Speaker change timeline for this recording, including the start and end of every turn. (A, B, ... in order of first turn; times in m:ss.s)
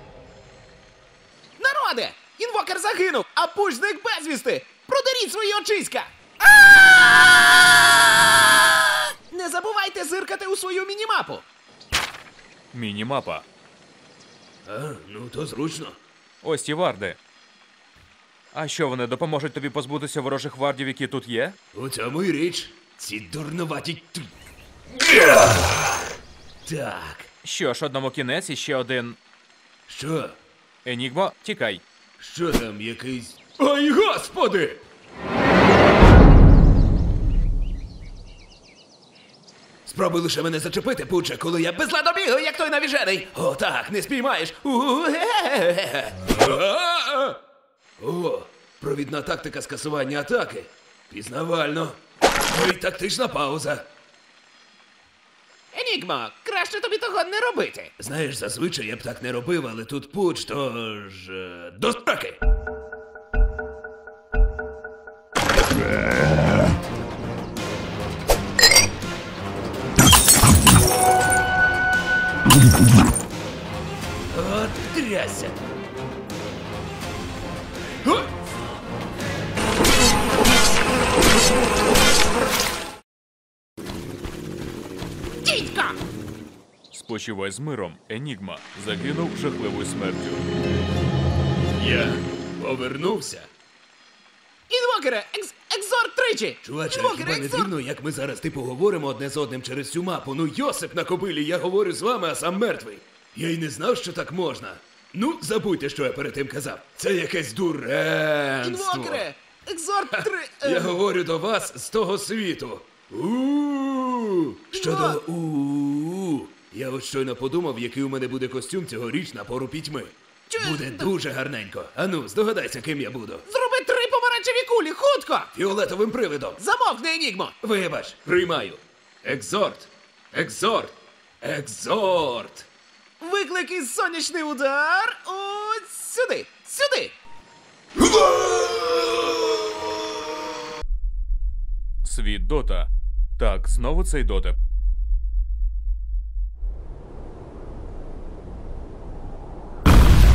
0:01.6-0:06.1 A
0:09.3-0:11.4 A
0:12.7-0:13.4 B
0:14.7-0:16.0 C
0:16.4-0:17.2 B
0:18.5-0:21.6 B
0:21.7-0:24.3 C
0:24.9-0:26.0 C
0:26.6-0:27.3 C
0:27.4-0:29.2 B
0:29.9-0:30.4 C
0:30.8-0:31.8 B
0:32.2-0:34.8 C
0:39.8-0:47.4 C
0:48.0-0:53.8 C
0:55.7-0:57.9 A
0:58.0-1:02.4 C
1:14.3-1:15.6 C
1:25.4-1:26.0 A
1:26.9-1:30.4 B
1:31.8-1:33.5 C
1:34.7-1:37.7 A
1:36.6-1:49.2 C
1:48.6-1:51.0 A
1:50.1-2:03.4 C
1:54.7-1:55.2 A
2:00.5-2:01.1 A
2:03.5-2:05.5 A
2:05.5-2:06.6 C
2:06.6-2:07.6 A
2:07.6-2:12.7 C
2:13.2-2:17.1 A
2:22.0-2:24.6 B